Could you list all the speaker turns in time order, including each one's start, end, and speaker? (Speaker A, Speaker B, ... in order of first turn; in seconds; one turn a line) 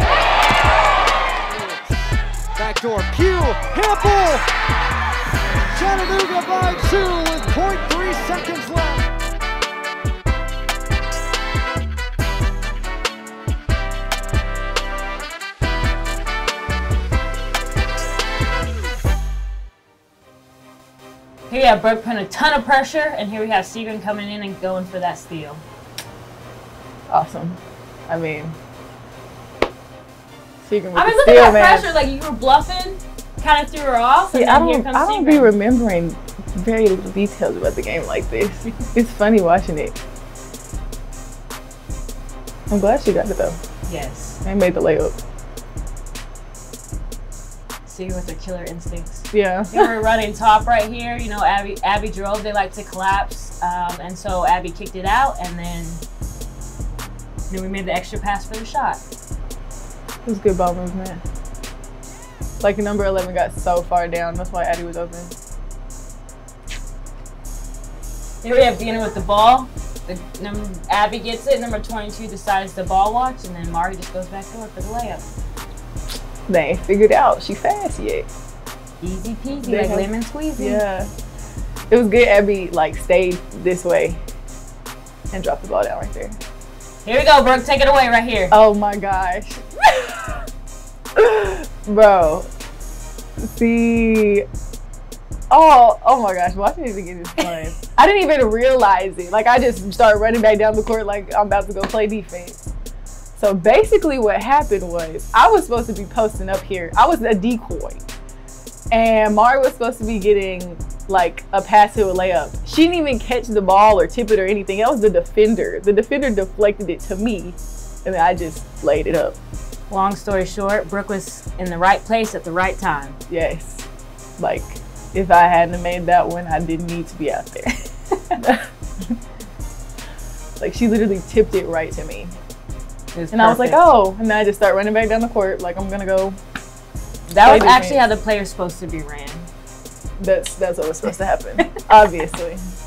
Speaker A: 1.5-4.5
Speaker A: 5.7-9.1
Speaker B: 21.5-25.6
Speaker C: 27.1-28.5
Speaker C: 30.6-31.9
Speaker B: 30.9-35.5
Speaker C: 34.3-40.0
Speaker C: 42.7-43.6
Speaker B: 43.9-44.4
Speaker C: 44.4-45.1
Speaker B: 47.8-56.0
Speaker C: 49.3-49.9
Speaker B: 57.5-59.0
Speaker C: 60.2-61.2
Speaker C: 62.6-65.3
Speaker B: 68.4-75.2
Speaker C: 76.5-78.3
Speaker B: 79.0-80.8
Speaker C: 79.6-81.1
Speaker C: 81.9-84.2
Speaker C: 85.3-86.4
Speaker B: 87.0-88.5
Speaker C: 88.5-90.4
Speaker C: 91.1-92.5
Speaker C: 93.4-94.5
Speaker C: 95.5-102.6
Speaker C: 103.4-108.0
Speaker C: 108.9-119.4
Speaker B: 119.9-123.2
Speaker C: 123.3-123.9
Speaker C: 124.4-127.8
Speaker C: 128.3-128.7
Speaker C: 130.6-132.3
Speaker B: 133.1-133.9
Speaker C: 133.3-136.4
Speaker B: 137.3-139.5
Speaker C: 137.4-138.1
Speaker C: 140.2-142.6